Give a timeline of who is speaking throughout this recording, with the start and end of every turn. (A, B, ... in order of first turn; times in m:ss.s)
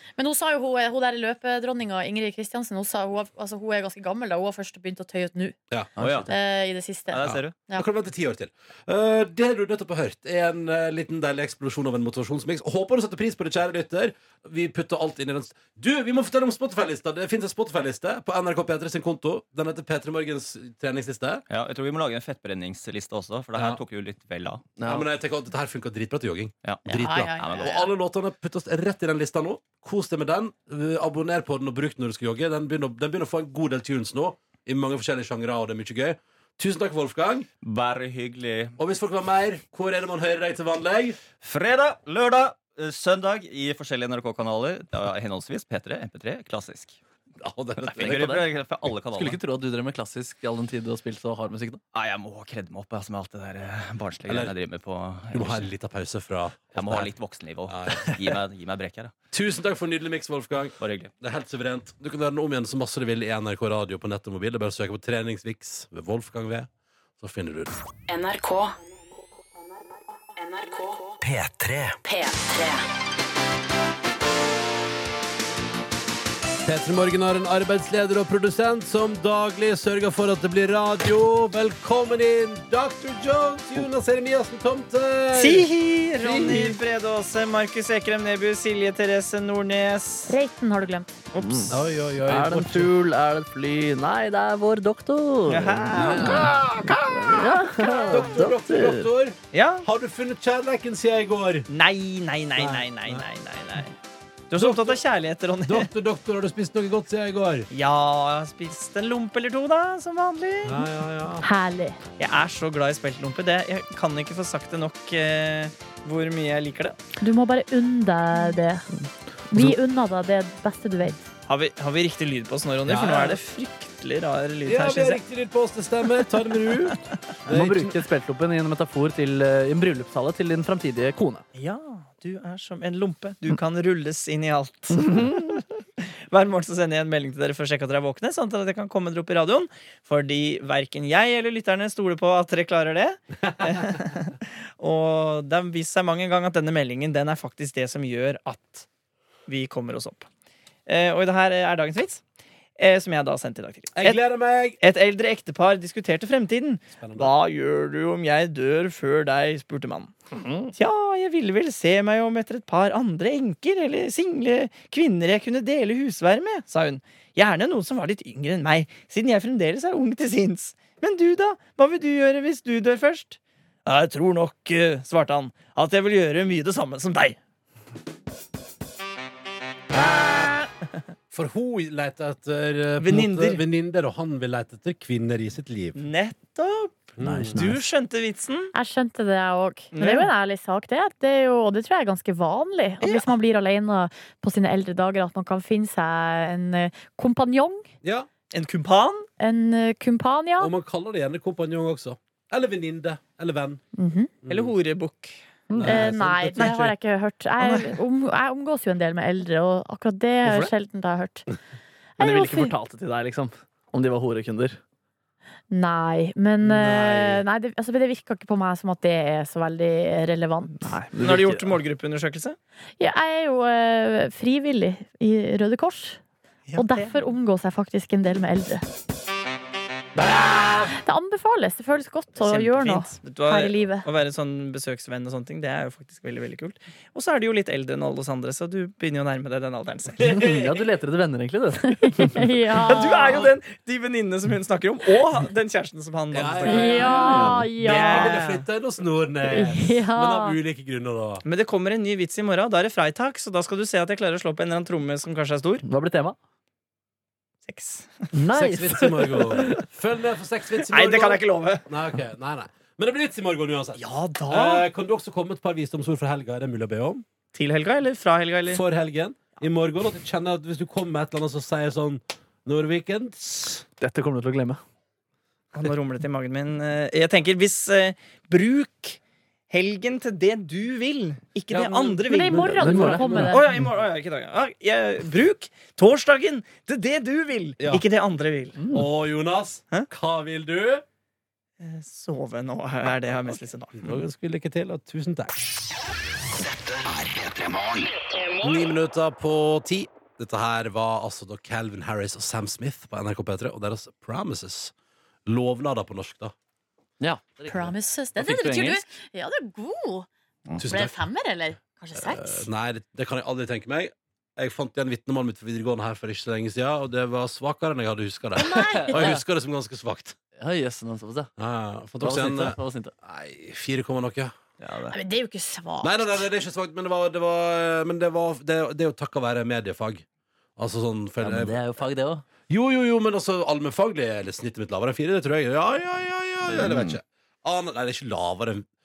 0:00.2-0:05.6 A
0:05.7-0:06.0 B
0:06.0-0:06.3 C
0:06.3-0:07.8 A
0:07.1-0:07.6 C
0:07.7-0:21.4 B
0:21.5-0:24.6 C
0:23.6-0:23.8 B
0:24.8-0:25.0 D
0:24.8-0:37.5 B
0:26.9-0:27.9 A
0:27.4-0:27.9 C
0:37.6-0:38.8 C
0:38.8-0:41.2 B
0:41.4-0:47.0 C
0:47.4-0:48.3 B
0:47.8-0:49.4 C
0:47.9-0:48.5 D
0:49.1-0:51.8 D
0:51.9-0:55.7 C
0:54.3-0:54.5 B
0:55.3-0:57.1 B
0:56.7-0:59.1 C
0:57.7-0:58.4 B
0:59.3-1:07.8 B
1:00.8-1:01.1 C
1:08.1-1:08.7 E
1:10.4-1:10.9 E
1:10.8-1:12.0 F
1:12.0-1:12.8 E
1:16.6-1:25.7 B
1:25.3-1:30.3 G
1:26.2-1:26.8 B
1:30.3-1:31.1 A
1:31.3-1:31.7 G
1:31.4-1:31.7 D
1:31.7-1:32.9 B
1:32.2-1:39.1 D
1:35.5-1:36.4 G
1:36.1-1:41.7 B
1:39.5-1:39.9 G
1:41.7-1:43.9 G
1:42.6-1:43.2 B
1:44.5-1:45.9 G
1:44.6-1:45.0 B
1:45.6-1:47.7 B
1:47.7-1:50.9 G
1:50.6-1:51.4 B
1:51.4-1:52.0 A
1:52.2-1:57.0 G
1:57.2-1:58.9 A
1:59.5-2:01.2 A
2:01.5-2:05.2 G
2:02.8-2:03.4 B
2:04.6-2:08.0 B
2:07.5-2:11.4 D
2:11.5-2:15.7 G
2:16.3-2:28.8 G
2:29.5-2:30.3 G
2:30.8-2:32.2 G
2:32.8-2:34.2 G
2:33.9-2:34.8 B
2:34.8-2:40.1 G
2:37.0-2:37.3 B
2:40.7-2:57.4 G
2:59.9-3:00.4 B
3:01.3-3:06.0 B
3:03.0-3:03.6 G
3:06.0-3:08.7 G
3:07.2-3:07.6 B
3:07.2-3:07.8 D
3:08.7-3:17.9 A
3:09.9-3:10.3 G
3:13.0-3:13.3 G
3:18.0-3:18.3 B
3:18.5-3:19.3 G
3:19.4-3:20.7 A
3:20.6-3:23.8 B
3:24.0-3:24.3 A
3:24.4-3:24.7 B
3:24.5-3:25.4 G
3:25.8-3:26.9 B
3:25.8-3:31.4 A
3:26.6-3:26.8 G
3:27.6-3:28.0 G
3:32.2-3:32.7 A
3:32.2-3:34.8 D
3:35.7-3:40.8 A
3:36.6-3:37.4 B
3:40.8-3:41.7 D
3:40.9-3:42.6 G
3:43.0-3:46.2 A
3:46.7-3:47.2 G
3:46.7-3:48.8 A
3:50.9-3:54.0 A
3:52.4-4:00.4 G
4:00.3-4:02.5 D
4:00.4-4:00.6 B
4:02.0-4:03.3 A
4:02.8-4:08.7 G
4:06.3-4:11.4 B
4:06.7-4:08.4 A
4:09.5-4:10.6 A
4:11.4-4:15.8 G
4:15.8-4:16.4 D
4:17.6-4:18.3 G
4:18.3-4:19.8 D
4:18.5-4:27.2 B
4:20.8-4:21.9 G
4:24.0-4:24.9 G
4:27.5-4:28.8 G
4:28.7-4:33.8 B
4:34.0-4:34.8 D
4:35.7-4:39.2 G
4:39.7-4:49.0 G
4:41.7-4:42.7 B
4:42.2-4:43.6 A
4:42.7-4:43.6 D
4:48.9-4:51.0 B
4:51.8-4:54.2 G
4:54.0-4:55.5 B
4:56.5-4:58.6 F
4:58.6-5:04.9 B
5:05.4-5:06.5 B
5:07.2-5:09.0 D
5:07.7-5:10.3 A
5:10.8-5:11.1 B
5:10.8-5:12.7 A
5:12.2-5:20.4 B
5:18.6-5:19.3 A
5:19.0-5:19.4 D
5:20.6-5:21.5 D
5:21.6-5:24.5 B
5:22.2-5:23.1 D
5:24.8-5:25.1 D
5:25.1-5:26.4 A
5:26.0-5:30.2 B
5:30.8-5:31.8 B
5:31.4-5:32.4 D
5:32.7-5:38.8 B
5:36.7-5:37.2 D